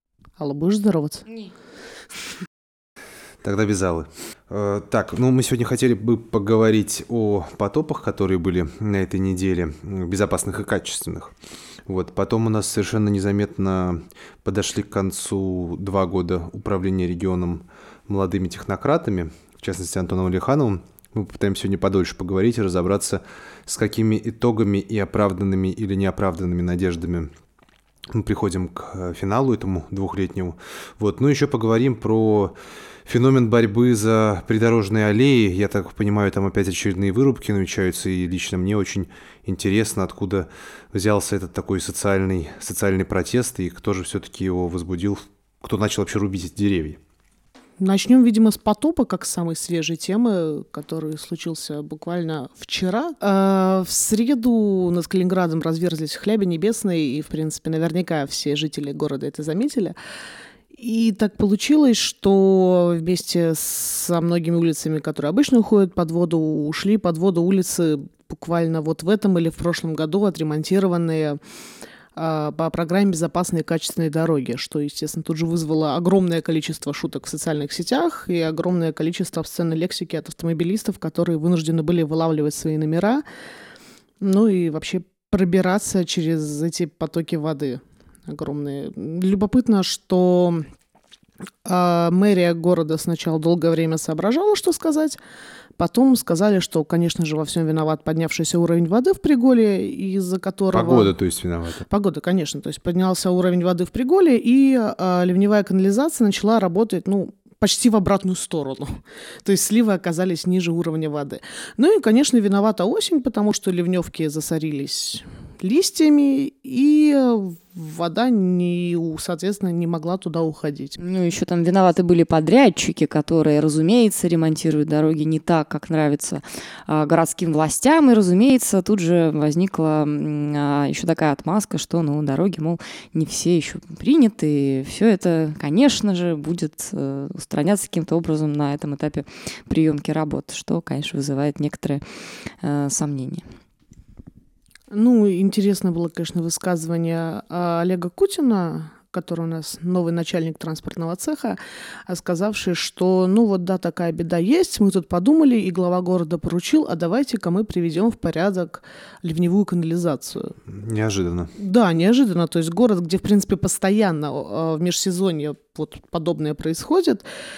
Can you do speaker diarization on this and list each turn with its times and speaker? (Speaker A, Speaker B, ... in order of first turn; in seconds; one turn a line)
Speaker A: 0.4-1.3
Speaker B: 3.4-11.3
Speaker B: 11.9-27.3
Speaker B: 28.1-32.5
Speaker B: 33.1-47.0
Speaker A: 47.8-60.0
Speaker A: 60.8-71.4
Speaker A: 72.2-83.2
Speaker A: 84.2-90.7
Speaker A: 91.6-95.2
Speaker A: 95.8-101.1
Speaker B: 100.7-101.8
Speaker A: 101.9-121.0
Speaker C: 121.0-142.0
Speaker C: 142.6-143.5
Speaker A: 144.9-160.6
Speaker B: 160.7-161.5
Speaker A: 161.6-167.2